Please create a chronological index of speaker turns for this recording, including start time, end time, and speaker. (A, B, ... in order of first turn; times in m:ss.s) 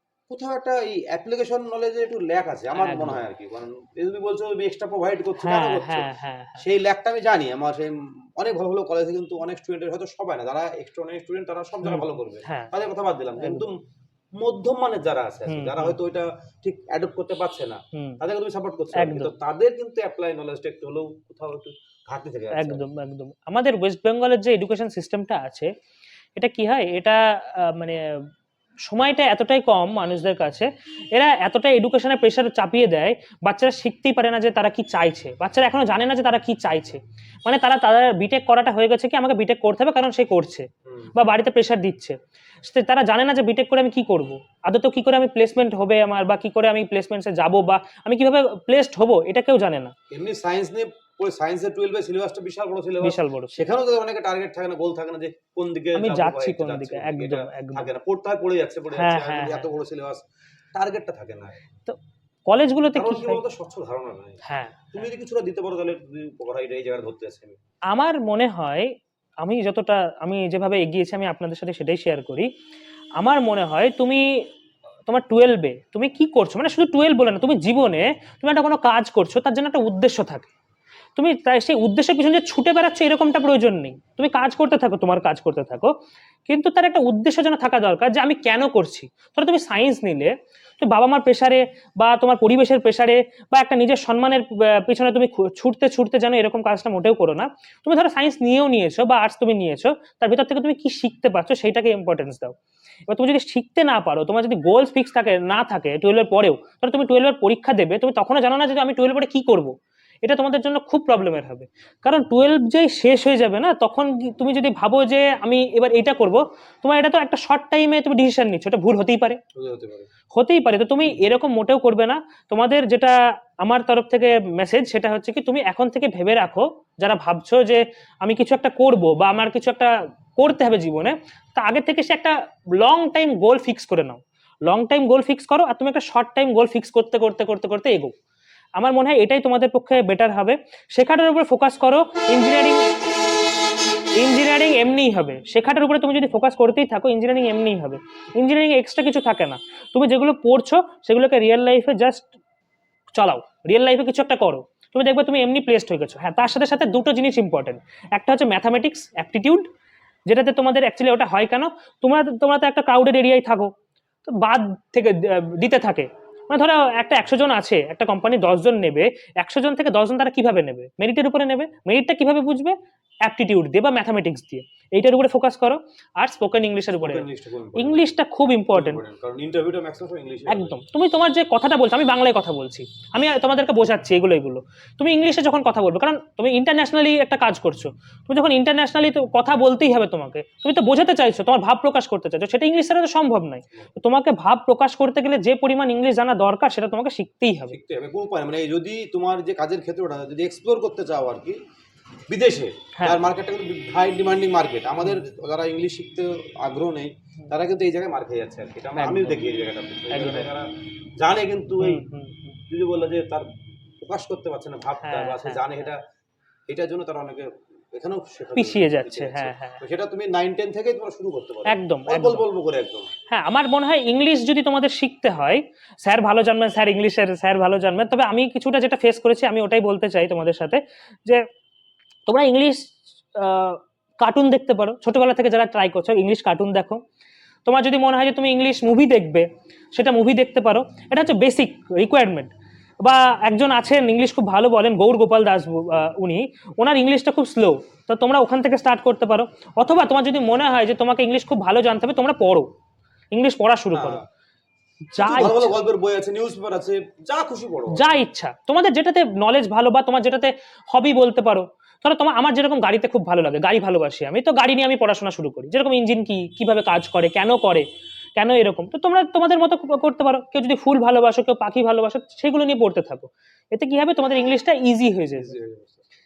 0:00.3-0:13.8 A
0:02.8-0:03.2 B
0:05.4-0:06.6 B
0:11.8-0:12.7 B
0:13.4-0:13.7 B
0:14.4-0:22.8 A
0:15.5-0:16.0 B
0:18.9-0:19.3 B
0:22.5-0:25.7 B
0:26.4-0:28.2 B
0:28.9-0:49.9 B
0:40.9-0:41.1 A
0:50.1-1:00.2 A
0:53.0-0:53.6 B
0:55.9-0:57.9 B
0:58.9-0:59.7 B
1:00.7-1:01.5 A
1:01.8-1:03.4 B
1:02.9-1:07.6 A
1:04.4-1:05.0 B
1:07.9-1:12.5 B
1:13.2-1:14.5 B
1:15.1-1:20.5 B
1:21.2-1:25.9 B
1:26.5-1:42.6 B
1:43.1-1:59.4 B
1:59.5-2:00.1 A
2:00.3-2:18.1 B
2:18.8-2:22.9 B
2:24.2-2:32.3 B
2:33.1-2:39.7 B
2:40.3-2:43.7 B
2:44.3-2:57.2 B
2:57.0-2:58.1 A
2:57.8-2:59.0 B
2:58.7-3:00.8 A
3:00.5-3:17.8 B
3:17.7-3:21.6 A
3:22.3-3:32.0 A
3:29.0-3:29.4 B
3:30.1-3:30.5 B
3:31.8-3:32.6 B
3:32.7-3:33.5 A
3:34.0-3:36.0 A
3:35.0-3:35.9 B
3:36.7-3:43.1 A
3:38.5-3:39.8 B
3:41.7-3:42.4 B
3:43.3-3:51.4 B
3:52.3-3:57.0 B
3:57.6-4:12.7 B
4:13.3-4:14.2 B
4:13.9-4:14.2 A
4:15.1-4:15.8 B
4:15.2-4:18.2 A
4:17.9-4:35.6 B
4:35.4-4:36.0 A